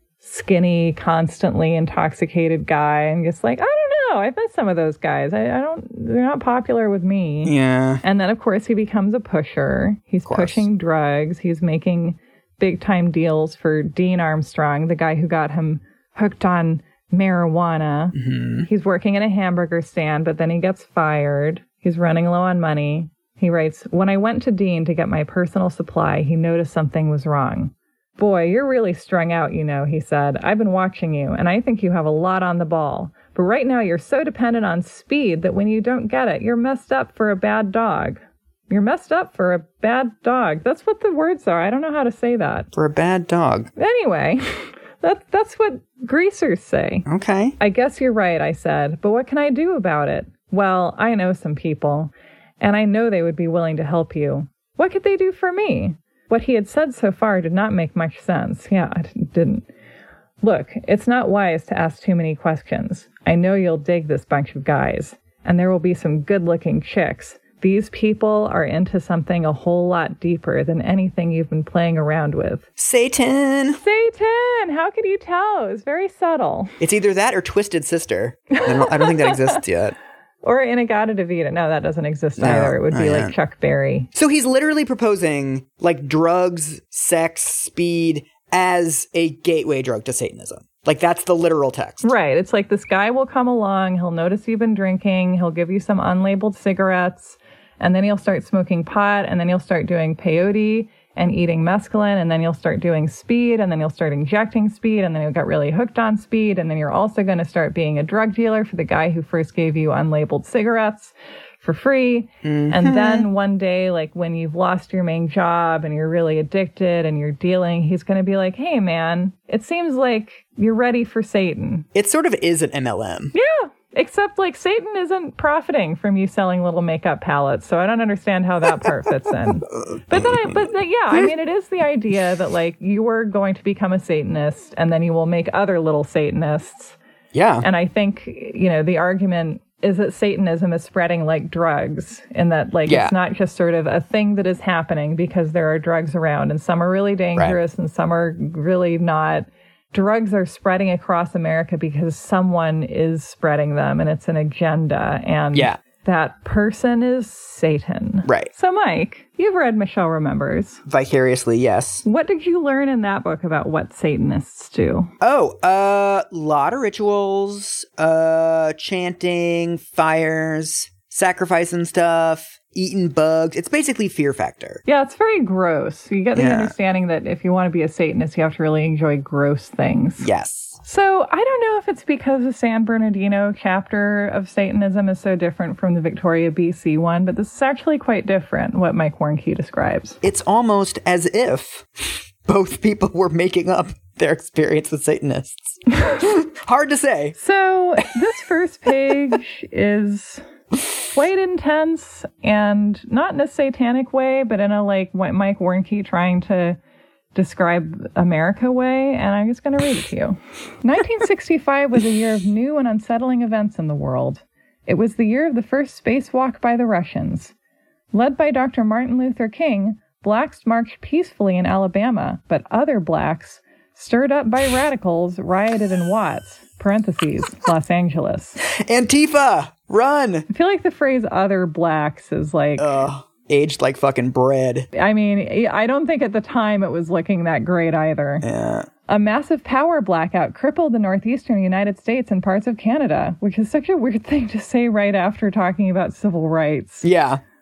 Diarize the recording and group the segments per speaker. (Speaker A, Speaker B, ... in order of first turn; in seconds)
Speaker A: 0.2-42.7, 43.8-47.1, 47.6-59.7, 60.4-72.7, 73.8-76.7, 78.5-79.5, 80.4-84.1, 92.0-121.8, 123.3-137.0, 137.6-160.8, 162.0-165.1, 174.8-180.3, 180.8-190.2, 197.4-200.4, 201.1-206.8, 207.3-217.5, 218.1-228.6, 230.5-233.0, 234.9-238.5, 239.1-247.1
Speaker B: 7.4-8.0, 10.2-10.7, 18.1-18.7, 42.7-43.7, 47.1-47.6, 72.8-73.8, 76.8-79.9, 82.4-83.3, 84.1-92.1, 112.4-113.3, 121.9-123.3, 129.9-131.3, 137.3-137.7, 142.9-143.1, 158.2-158.5, 160.9-162.0, 165.2-174.8, 176.3-176.7, 180.2-180.8, 190.2-197.3, 228.6-230.5, 232.8-234.9, 238.4-238.9, 247.0-247.4